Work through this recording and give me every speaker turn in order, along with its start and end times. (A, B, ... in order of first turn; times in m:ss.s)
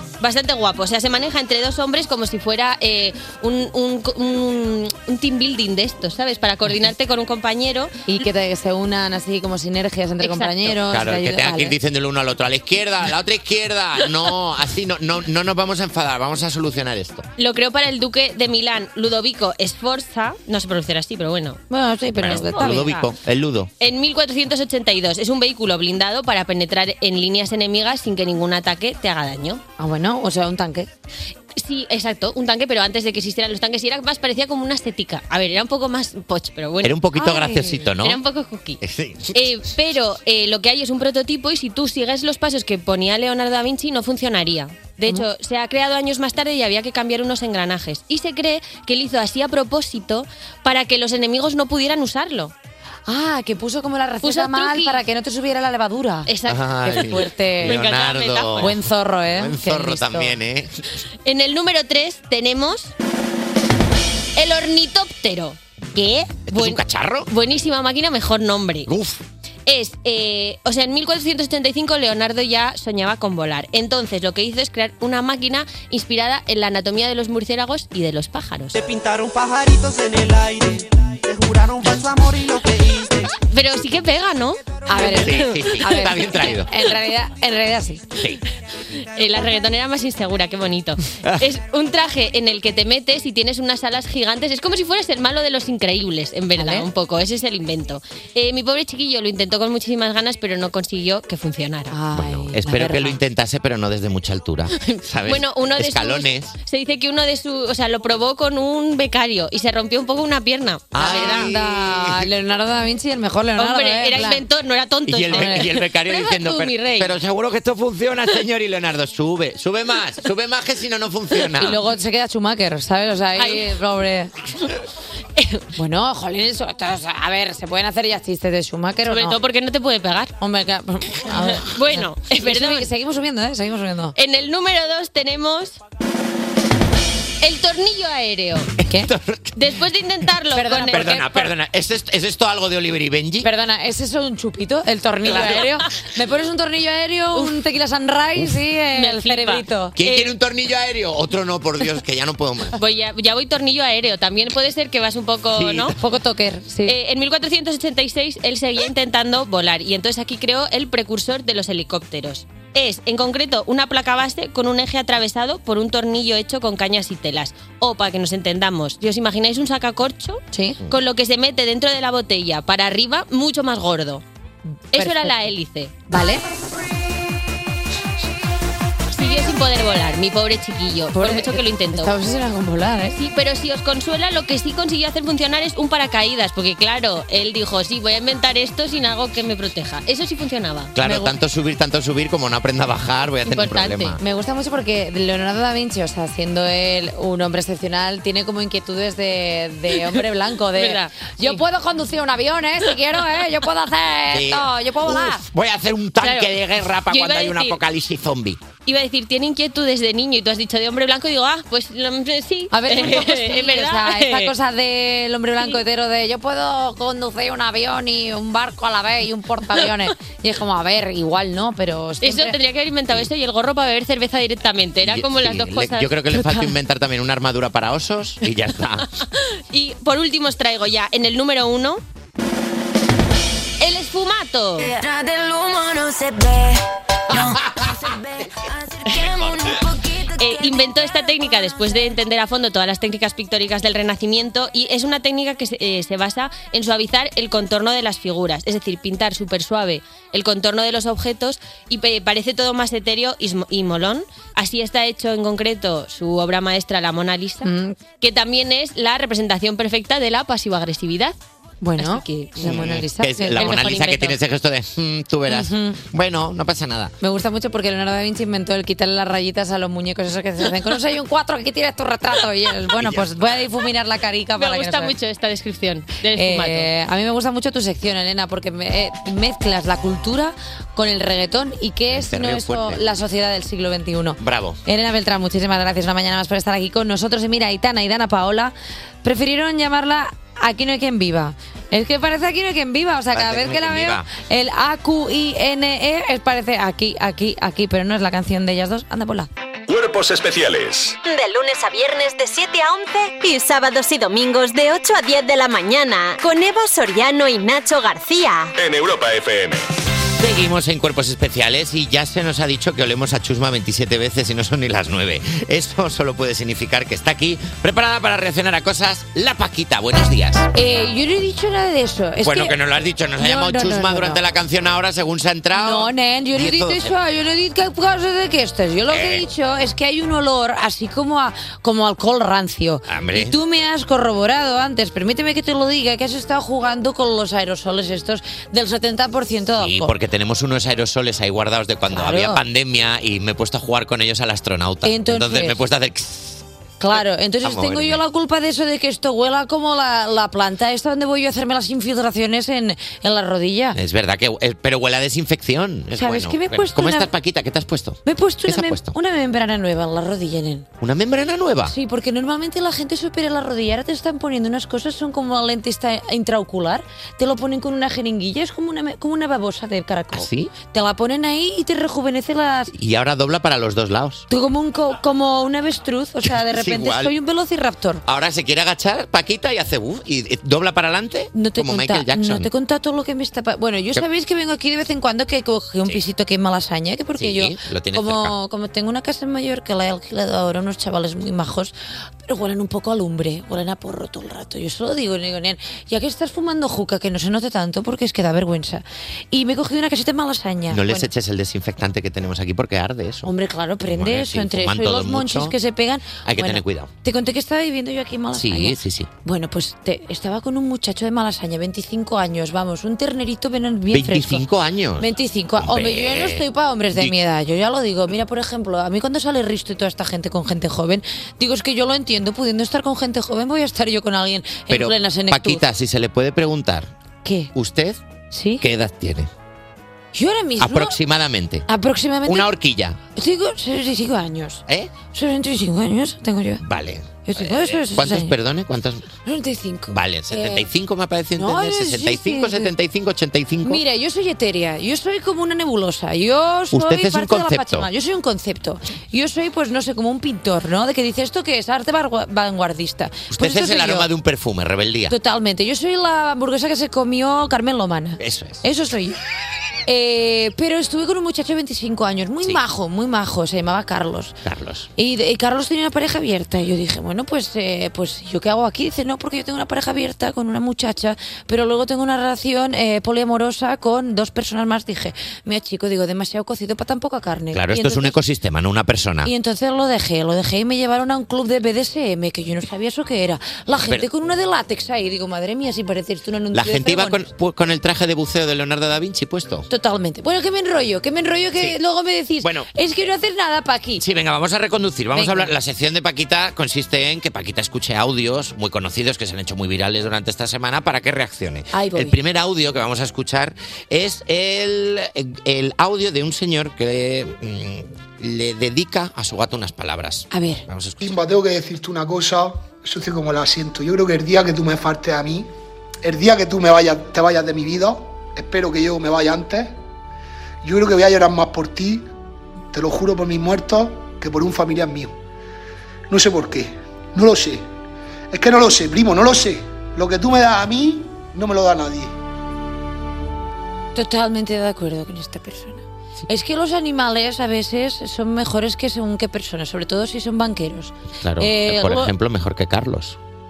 0:00.2-0:07.9 A
0:08.1-0:11.8 B
0:10.2-0:10.7 A
0:10.8-0:17.3 C
0:17.4-0:21.6 A
0:21.7-0:23.0 B
0:22.2-0:23.7 C
0:22.2-0:23.1 A
0:23.8-0:29.6 A
0:29.8-0:30.9 B
0:31.6-0:37.0 A
0:36.8-0:38.2 C
0:37.2-0:37.8 B
0:37.9-0:38.8 A
0:38.8-0:39.5 C
0:39.3-0:52.5 A
0:53.1-0:56.3 B
0:54.2-0:55.0 A
0:56.3-0:58.7 A
0:56.4-1:00.9 C
0:56.8-0:57.9 B
0:58.6-1:00.4 B
1:01.2-1:02.9 A
1:04.4-1:08.9 A
1:06.5-1:07.3 C
1:08.8-1:09.2 C
1:09.7-1:18.7 A
1:18.7-1:23.4 D
1:23.5-1:26.1 A
1:24.9-1:28.0 B
1:24.9-1:26.7 C
1:28.2-1:28.4 C
1:29.0-1:42.0 A
1:31.2-1:31.5 C
1:36.6-1:36.9 B
1:41.9-1:43.2 B
1:42.1-1:46.6 C
1:44.9-1:51.5 A
1:50.9-1:52.3 C
1:51.0-1:54.4 B
1:53.6-1:57.1 A
1:55.0-2:01.8 C
1:55.3-1:55.8 B
2:01.6-2:04.3 B
2:03.4-2:03.7 A
2:05.4-2:05.6 A
2:05.8-2:09.4 B
2:09.0-2:10.4 A
2:10.4-2:14.1 B
2:11.3-2:12.9 A
2:14.2-2:15.8 A
2:17.4-2:18.7 A
2:18.8-2:19.7 C
2:19.6-2:21.2 A
2:20.5-2:21.5 B
2:20.9-2:23.5 C
2:23.4-2:30.0 B
2:25.3-2:25.8 A
2:28.9-2:30.3 A
2:30.0-2:32.8 C
2:32.8-2:36.0 A
2:35.5-2:36.0 C
2:36.0-2:37.0 B
2:36.8-2:54.2 A
2:50.5-2:50.8 B
2:54.9-2:56.0 A
2:54.9-2:55.5 B
2:56.1-2:56.4 B
2:59.1-3:02.1 A
3:01.1-3:03.2 B
3:03.1-3:10.9 A
3:11.0-3:14.2 C
3:11.0-3:11.3 B
3:13.4-3:14.2 A
3:14.2-3:25.4 B
3:19.9-3:21.6 A
3:24.3-3:28.6 C
3:26.2-3:27.8 A
3:28.8-3:34.5 A
3:32.7-3:42.6 B
3:42.2-3:46.1 A
3:45.0-3:49.1 C
3:46.3-3:46.7 B
3:49.7-3:52.0 A
3:53.8-3:54.9 A
3:54.8-4:00.9 E
4:00.4-4:17.7 A
4:17.6-4:18.0 B
4:18.2-4:21.4 A
4:21.8-4:24.0 B
4:22.0-4:22.6 A
4:22.6-4:27.1 C
4:23.6-4:24.4 A
4:25.5-4:26.0 B
4:27.2-4:35.1 B
4:33.0-4:33.7 C
4:34.6-4:36.9 A
4:36.3-4:59.5 B
4:42.1-4:43.0 C
4:44.4-4:44.8 C
4:53.3-4:54.3 C
4:59.9-5:01.2 F
5:01.2-5:08.7 G
5:08.7-5:09.9 F
5:10.4-5:20.7 C
5:20.7-5:22.8 B
5:22.4-5:27.2 C
5:23.4-5:24.4 B
5:25.7-5:40.1 B
5:29.1-5:29.4 C
5:33.1-5:33.6 C
5:39.8-5:46.6 C
5:42.1-5:42.6 B
5:45.0-5:45.8 B
5:47.0-5:54.0 B
5:47.6-5:48.2 C
5:53.9-5:59.1 C
5:56.2-5:57.3 B
5:58.3-6:00.9 B
6:01.0-6:01.9 C
6:01.9-6:12.9 B
6:10.3-6:10.7 C
6:12.9-6:14.4 C
6:14.5-6:18.2 B
6:16.4-6:17.3 C
6:18.2-6:22.7 C
6:21.5-6:31.9 B
6:27.4-6:28.5 C
6:32.4-6:41.3 B
6:40.9-6:43.5 C
6:43.4-6:54.6 B
6:44.1-6:45.8 C
6:46.4-6:47.1 C
6:48.5-6:49.3 C
6:54.1-6:57.4 C
6:55.2-7:05.8 B
7:04.9-7:07.1 C
7:07.4-7:07.7 B
7:07.7-7:08.2 C
7:08.5-7:08.8 B
7:08.8-7:09.5 C
7:10.3-7:11.2 B
7:10.8-7:11.9 C
7:11.9-7:12.7 B
7:12.4-7:13.2 C
7:13.4-7:16.8 B
7:14.9-7:15.1 C
7:16.8-7:19.3 C
7:17.4-7:18.6 B
7:19.4-7:20.9 B
7:20.1-7:24.0 C
7:21.6-7:22.9 B
7:23.8-7:34.3 B
7:26.9-7:28.1 C
7:33.5-7:35.4 C
7:35.3-7:39.4 B
7:38.4-7:38.8 C
7:40.0-7:44.6 B
7:44.6-7:45.1 C
7:45.2-7:58.4 B
7:57.7-7:59.5 C
7:59.4-8:07.5 B
8:06.7-8:09.9 C
8:09.9-8:14.2 B
8:12.6-8:12.9 C
8:14.2-8:31.2 C
8:15.4-8:15.7 B
8:21.9-8:22.4 B
8:30.5-8:30.8 B
8:31.2-8:35.7 H
8:36.2-8:40.0 H
8:40.8-8:42.2 H
8:42.9-8:45.3 H
8:46.3-8:47.8 H
8:48.5-8:52.3 H
8:54.1-9:02.3 B
9:01.4-9:03.4 C